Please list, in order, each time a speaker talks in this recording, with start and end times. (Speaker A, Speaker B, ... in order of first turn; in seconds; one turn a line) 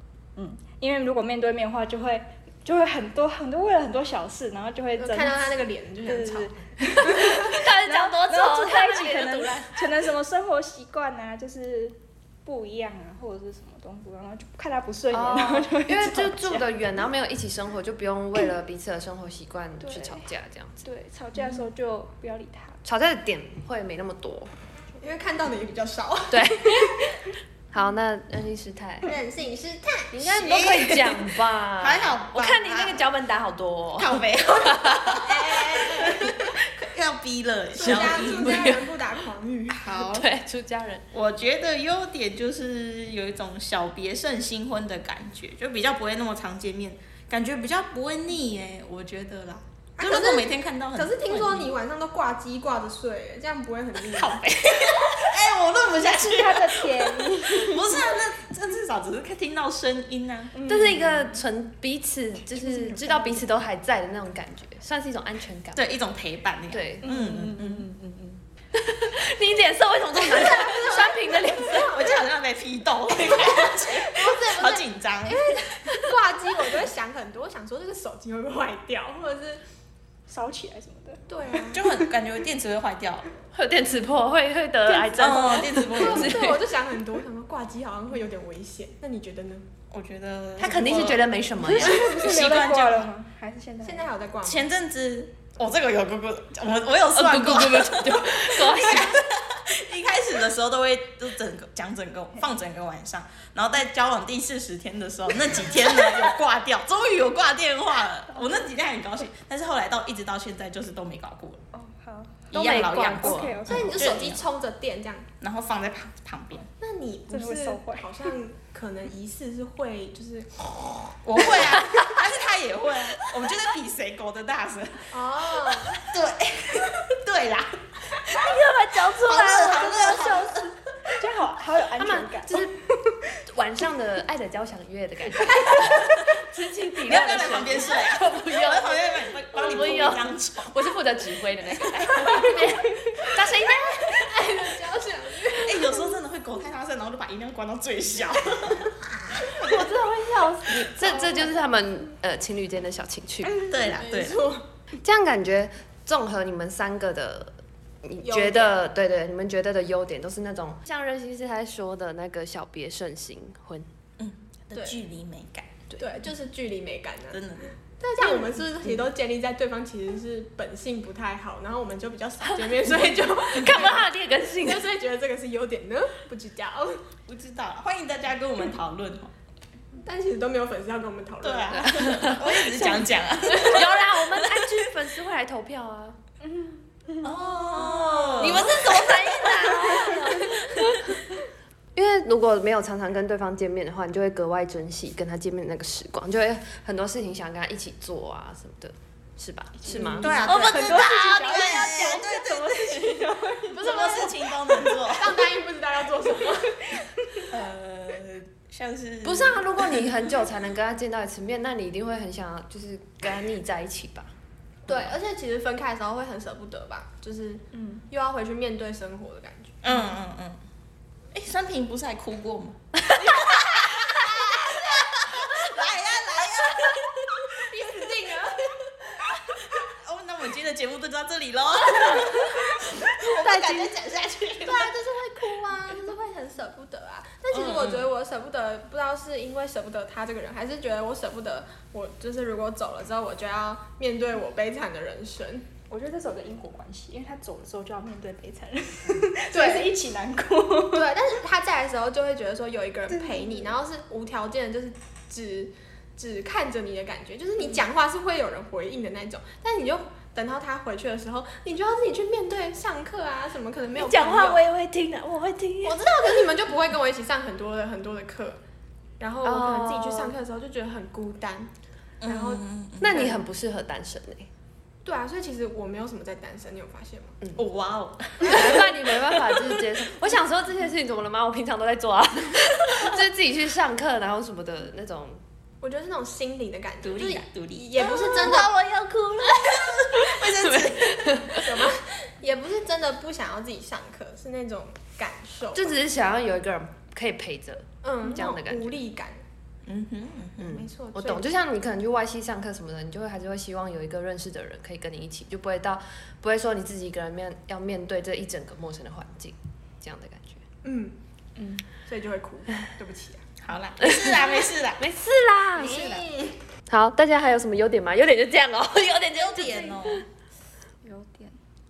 Speaker A: 0.4-5.4
Speaker B: 5.0-7.5
Speaker A: 6.0-16.7
Speaker C: 7.1-9.8
Speaker C: 15.1-20.8
Speaker A: 19.8-20.3
Speaker A: 20.8-22.8
Speaker C: 22.8-24.5
Speaker B: 25.0-27.1
Speaker C: 26.3-27.1
Speaker C: 27.7-29.1
Speaker B: 29.0-30.3
Speaker C: 30.1-35.3
Speaker D: 30.3-33.1
Speaker D: 34.0-38.8
Speaker B: 35.2-36.5
Speaker B: 37.8-39.8
Speaker C: 37.8-38.8
Speaker D: 39.7-40.3
Speaker C: 39.9-41.0
Speaker D: 41.1-51.8
Speaker B: 50.0-54.4
Speaker D: 54.0-60.7
Speaker A: 56.0-58.0
Speaker A: 60.5-61.4
Speaker C: 60.7-65.8
Speaker A: 62.6-63.4
Speaker D: 65.8-68.4
Speaker C: 66.7-67.1
Speaker A: 67.0-68.0
Speaker C: 68.7-72.1
Speaker B: 70.2-72.2
Speaker D: 71.7-75.7
Speaker B: 73.6-79.6
Speaker C: 75.8-76.2
Speaker A: 80.3-82.1
Speaker B: 81.3-81.8
Speaker D: 81.7-83.3
Speaker C: 83.5-86.6
Speaker A: 84.9-85.3
Speaker D: 85.1-86.6
Speaker B: 85.8-89.7
Speaker D: 89.9-93.1
Speaker C: 90.6-92.3
Speaker A: 91.7-94.1
Speaker B: 93.8-94.7
Speaker D: 94.4-111.6
Speaker C: 97.1-99.2
Speaker A: 111.7-114.1
Speaker C: 112.5-113.6
Speaker D: 112.5-114.4
Speaker B: 113.7-115.3
Speaker D: 115.4-116.7
Speaker B: 116.8-121.2
Speaker A: 117.3-118.3
Speaker D: 121.2-128.6
Speaker C: 121.6-122.2
Speaker B: 125.1-126.0
Speaker C: 128.3-130.0
Speaker D: 129.1-130.7
Speaker A: 129.8-133.3
Speaker C: 132.0-132.8
Speaker C: 133.5-144.3
Speaker B: 135.4-136.3
Speaker D: 137.1-140.9
Speaker B: 142.3-142.7
Speaker B: 143.4-146.2
Speaker D: 145.4-149.9
Speaker B: 149.4-151.5
Speaker C: 149.7-153.6
Speaker D: 153.6-154.4
Speaker B: 153.7-154.7
Speaker C: 155.0-163.9
Speaker B: 158.2-158.8
Speaker D: 164.2-166.0
Speaker B: 166.0-167.4
Speaker D: 167.3-167.7
Speaker B: 168.0-177.1
Speaker C: 172.4-174.9
Speaker D: 177.3-179.3
Speaker B: 180.0-182.3
Speaker D: 181.4-184.7
Speaker C: 181.7-186.2
Speaker A: 186.6-187.2
Speaker D: 187.2-190.2
Speaker B: 187.7-188.9
Speaker C: 188.4-191.2
Speaker C: 191.9-202.1
Speaker B: 199.9-201.1
Speaker D: 200.2-205.5
Speaker A: 200.6-204.6
Speaker B: 203.8-204.4
Speaker B: 205.0-207.0
Speaker A: 206.9-207.5
Speaker D: 207.4-210.4
Speaker C: 209.2-214.3
Speaker C: 214.9-215.2
Speaker B: 214.9-219.8
Speaker A: 217.7-218.1
Speaker D: 219.8-220.6
Speaker D: 221.3-227.6
Speaker B: 227.5-228.7
Speaker D: 229.5-235.0
Speaker B: 233.3-234.0
Speaker B: 234.6-245.7
Speaker D: 237.5-238.1
Speaker A: 245.9-251.1
Speaker B: 249.5-249.9
Speaker B: 250.9-264.6
Speaker A: 253.1-253.7
Speaker C: 263.9-266.5
Speaker B: 265.8-268.6
Speaker B: 269.2-271.7
Speaker C: 269.4-270.3
Speaker D: 272.2-273.3
Speaker B: 272.2-273.4
Speaker C: 273.0-274.5
Speaker B: 275.0-277.4
Speaker D: 277.6-279.9
Speaker C: 278.4-285.4
Speaker B: 285.8-288.7
Speaker D: 287.0-291.5
Speaker C: 290.2-291.8
Speaker B: 291.6-295.9
Speaker C: 295.7-298.9
Speaker B: 298.0-299.4
Speaker D: 299.9-300.8
Speaker C: 300.6-310.6
Speaker B: 300.6-301.4
Speaker B: 310.8-311.2
Speaker A: 311.6-311.9
Speaker B: 312.1-313.4
Speaker D: 313.6-315.0
Speaker C: 314.0-316.2
Speaker D: 315.8-316.3
Speaker B: 315.9-316.5
Speaker C: 316.9-320.1
Speaker D: 319.3-320.2
Speaker A: 321.0-321.6